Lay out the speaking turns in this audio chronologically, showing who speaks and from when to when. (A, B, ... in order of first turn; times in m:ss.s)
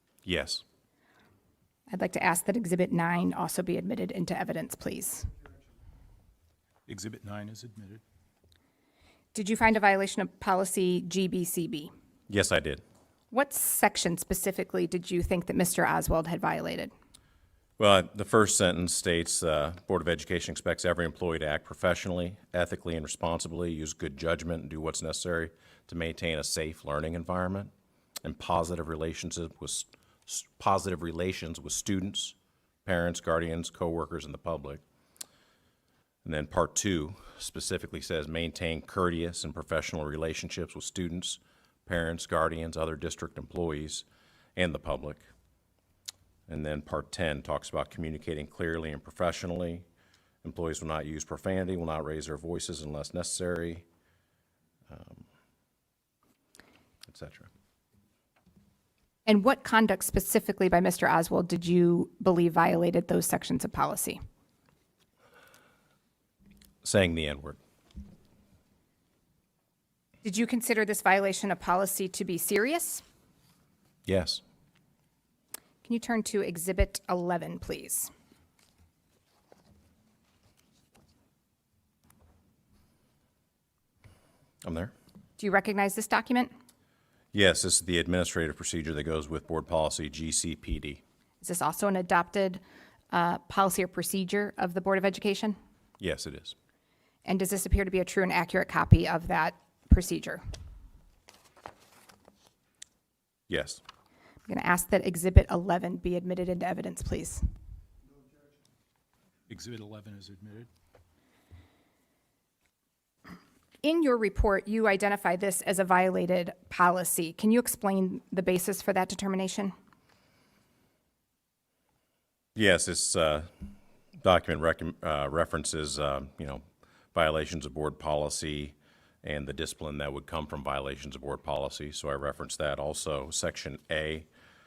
0:00.2-0:00.6 A
0:01.9-0:05.3 B
0:06.9-0:08.0 C
0:09.3-0:11.9 B
0:12.3-0:12.8 A
0:13.3-0:16.9 B
0:17.8-0:27.7 A
0:28.2-0:34.8 A
0:36.2-0:45.3 A
0:46.5-0:49.9 A
0:50.4-0:53.8 A
0:54.9-0:55.2 A
0:57.1-0:57.5 A
0:59.3-1:04.2 B
1:06.8-1:07.6 A
1:10.2-1:13.0 B
1:14.1-1:14.4 A
1:15.8-1:18.1 B
1:24.6-1:24.9 A
1:25.4-1:26.5 B
1:27.3-1:31.0 A
1:31.4-1:32.6 B
1:33.1-1:35.6 B
1:36.0-1:36.6 A
1:37.2-1:40.4 B
1:43.5-1:43.8 A
1:44.5-1:47.4 B
1:49.5-1:50.7 C
1:53.8-1:59.7 B
2:02.6-2:03.5 A
2:04.2-2:06.6 A
2:07.1-2:14.3 A